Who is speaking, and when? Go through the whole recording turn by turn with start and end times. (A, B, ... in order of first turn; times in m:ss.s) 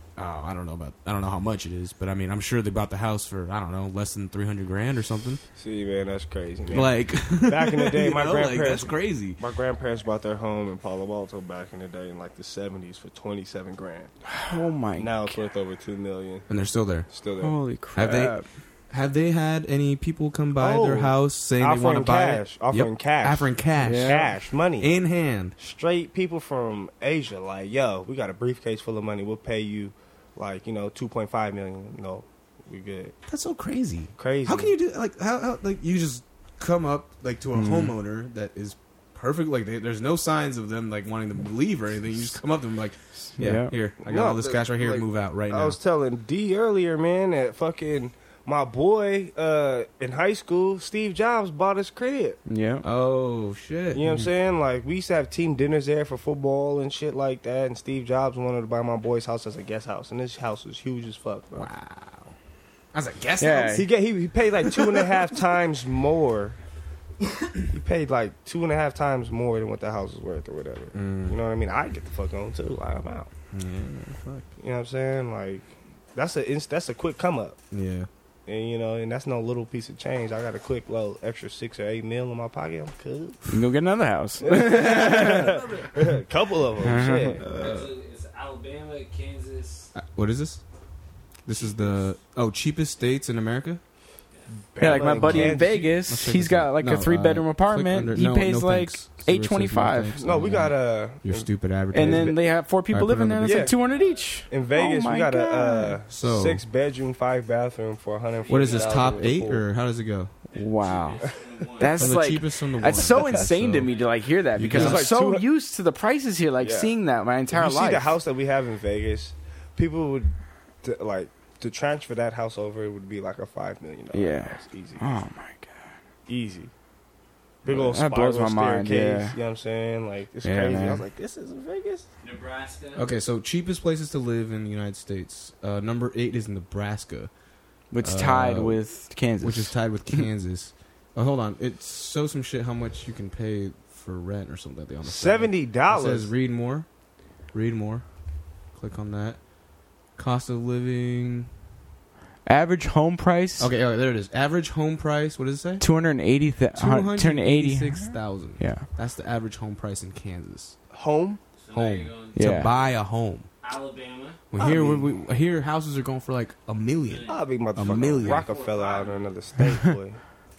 0:00.2-0:05.4 A
0:05.6-0:14.1 B
0:06.7-0:09.4 A
0:14.3-0:15.4 C
0:15.0-0:16.5 B
0:16.5-0:17.1 A
0:17.1-0:17.6 B
0:17.4-0:18.4 C
0:18.0-0:25.6 A
0:20.6-0:24.9 B
0:23.8-0:24.2 C
0:25.6-0:33.2 B
0:33.3-0:45.8 A
0:34.2-0:34.7 B
0:37.6-0:37.9 C
0:43.4-0:43.7 C
0:44.0-0:52.4 B
0:52.5-0:52.8 C
0:52.8-0:54.1 A
0:53.9-1:01.7 B
1:01.5-1:02.4 A
1:02.9-1:03.9 A
1:03.4-1:03.9 C
1:03.7-1:06.6 B
1:07.7-1:13.3 B
1:10.9-1:11.4 A
1:13.5-1:14.5 A
1:14.6-1:17.6 B
1:17.7-1:18.1 A
1:18.5-1:23.5 B
1:23.5-1:25.5 C
1:24.4-1:27.9 B
1:24.5-1:26.0 D
1:26.8-1:27.4 C
1:27.4-1:29.9 D
1:29.9-1:30.6 A
1:31.4-1:33.8 A
1:31.6-1:32.1 D
1:34.6-1:36.0 B
1:34.8-1:40.2 C
1:35.0-1:43.7 A
1:40.2-1:42.4 B
1:41.9-1:46.0 C
1:43.4-1:43.8 B
1:43.8-1:44.4 D
1:44.5-1:49.6 B
1:46.1-1:46.6 A
1:48.3-1:49.3 D
1:48.5-1:50.3 A
1:50.5-1:52.3 D
1:50.6-1:51.2 C
1:51.8-1:58.1 C
1:52.0-1:53.9 A
1:53.8-1:54.2 D
1:54.5-1:55.1 A
1:54.7-1:55.4 B
1:56.6-1:56.9 B
1:57.5-2:05.0 B
2:04.1-2:05.8 C
2:06.3-2:06.7 B
2:07.6-2:12.1 B
2:07.7-2:09.4 C
2:10.4-2:11.0 C
2:12.2-2:13.1 D
2:13.0-2:17.3 A
2:17.9-2:20.2 C
2:18.0-2:18.8 A
2:19.4-2:26.9 A
2:25.0-2:26.3 B
2:27.5-2:28.0 A
2:28.7-2:29.4 A
2:30.2-2:31.5 A
2:32.5-2:33.7 C
2:33.6-2:35.8 A
2:35.8-2:38.9 C
2:36.8-2:40.8 A
2:40.9-2:41.4 B
2:41.6-2:42.9 D
2:41.7-2:43.5 A
2:42.4-2:42.7 C
2:43.6-2:44.4 D
2:44.5-2:48.5 A
2:44.6-2:45.1 B
2:47.1-2:49.4 D
2:47.3-2:50.2 B